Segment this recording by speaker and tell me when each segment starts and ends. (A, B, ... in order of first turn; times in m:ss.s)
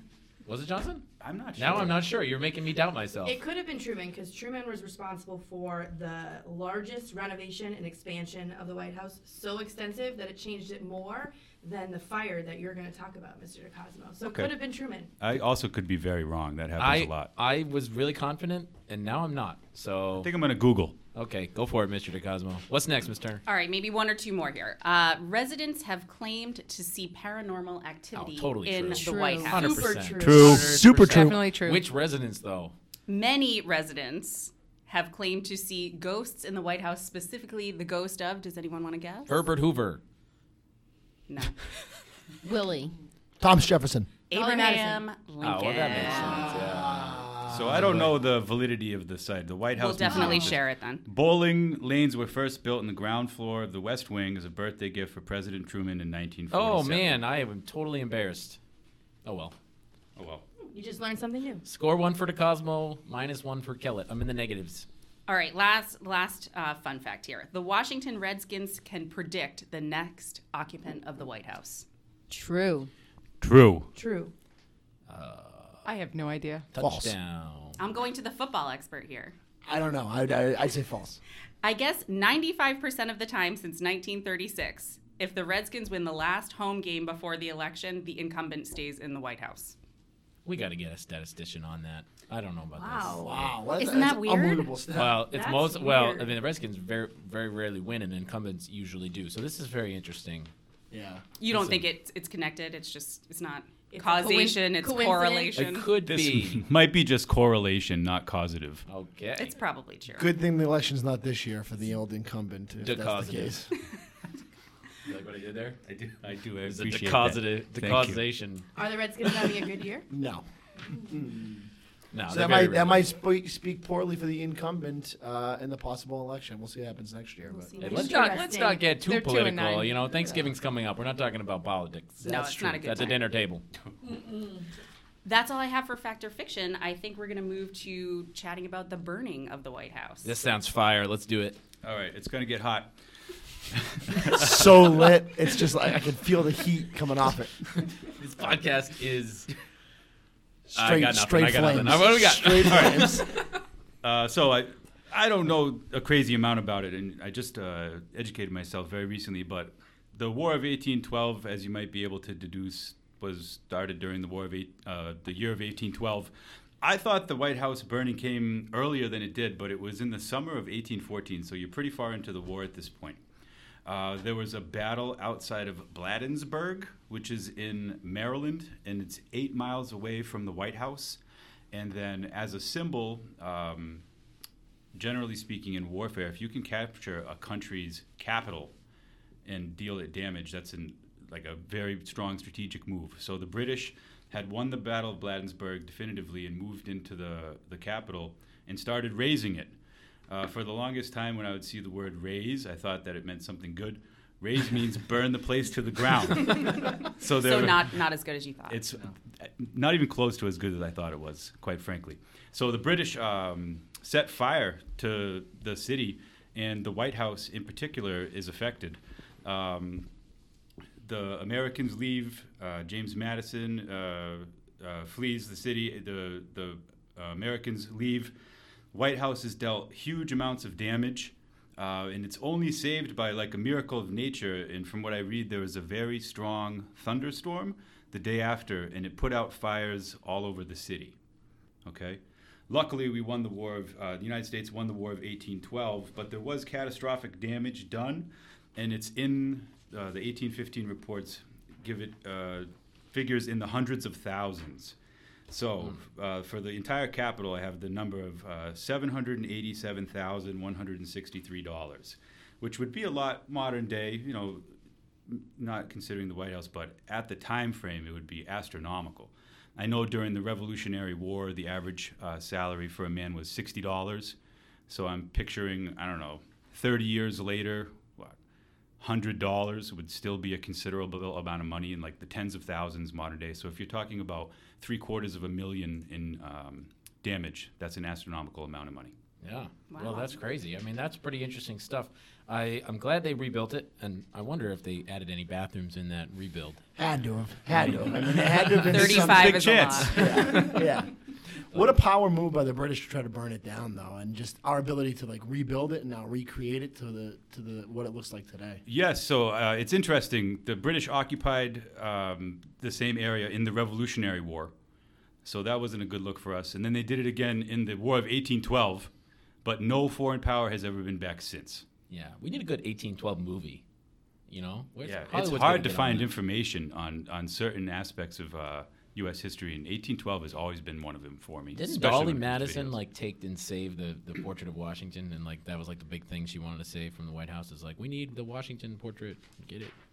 0:00.4-0:01.0 A
0:01.2-0:02.2 B
0:01.6-0:03.4 A
0:03.2-0:15.1 C
0:14.2-0:14.5 B
0:15.2-0:17.4 B
0:16.8-0:20.3 A
0:20.2-0:21.0 B
0:21.1-0:23.4 A
0:23.5-0:29.9 D
0:28.1-0:32.7 A
0:28.9-0:29.6 E
0:29.5-0:30.7 C
0:30.2-0:31.4 F
0:30.2-0:30.7 B
0:31.0-0:31.9 G
0:33.1-0:39.4 D
0:39.3-0:40.0 A
0:41.3-0:41.6 D
0:42.4-0:43.0 E
0:43.4-0:44.1 F
0:44.3-0:46.6 D
0:44.3-0:45.0 C
0:45.4-0:47.2 A
0:46.5-0:48.1 F
0:47.5-0:57.2 B
0:49.8-0:51.0 D
0:56.5-0:58.6 A
0:59.2-0:59.6 A
1:00.2-1:00.4 B
1:00.7-1:01.6 C
1:01.7-1:04.9 A
1:05.3-1:11.9 D
1:12.3-1:12.9 E
1:13.4-1:13.9 B
1:14.0-1:14.3 C
1:15.1-1:15.8 A
1:15.8-1:16.7 G
1:16.7-1:17.8 A
1:16.8-1:17.2 F
1:17.8-1:19.4 D
1:19.7-1:21.2 F
1:21.6-1:29.8 D
1:30.4-1:33.6 A
1:32.8-1:36.3 C
1:33.2-1:35.3 F
1:34.9-1:40.5 A
1:40.9-1:41.2 F
1:41.4-1:45.9 D
1:41.5-1:41.9 A
1:43.9-1:45.6 C
1:45.6-1:46.6 A
1:46.0-1:48.8 B
1:48.9-1:49.6 A
1:49.4-1:50.3 D
1:50.2-1:53.7 F
1:52.8-1:53.7 A
1:55.1-1:55.8 A
1:55.8-1:58.2 B
1:56.6-1:58.7 A
1:58.8-2:00.1 C
2:00.1-2:00.4 F
2:01.0-2:01.7 F
2:02.1-2:03.0 A
2:02.3-2:07.8 F
2:07.5-2:08.8 C
2:07.8-2:13.6 A
2:07.8-2:10.5 G
2:12.2-2:13.2 D
2:15.2-2:20.3 D
2:20.2-2:21.6 A
2:21.8-2:23.0 B
2:23.7-2:24.8 B
2:24.3-2:27.7 F
2:28.0-2:29.5 A
2:30.7-2:33.3 F
2:30.7-2:33.4 A
2:32.7-2:33.1 B
2:34.0-2:53.2 B
2:53.9-3:01.2 B
3:01.7-3:04.0 B
3:05.0-3:08.7 B
3:09.4-3:19.8 B
3:20.3-3:28.0 B
3:27.2-3:28.8 D
3:28.7-3:40.1 B
3:41.0-3:48.3 B
3:48.9-4:01.2 B
4:01.8-4:15.0 B
4:15.5-4:24.6 B
4:25.3-4:34.4 B
4:34.9-4:38.4 B
4:39.0-4:49.2 B
4:49.4-4:56.8 A
4:49.9-4:50.4 D
4:57.0-5:01.1 F
4:58.9-5:00.6 D
4:58.9-5:00.8 B
5:01.7-5:08.8 F
5:08.9-5:14.7 B
5:15.4-5:19.1 B
5:19.6-5:21.9 B
5:22.1-5:23.8 A
5:24.5-5:26.3 A
5:25.0-5:33.0 B
5:31.8-5:39.9 A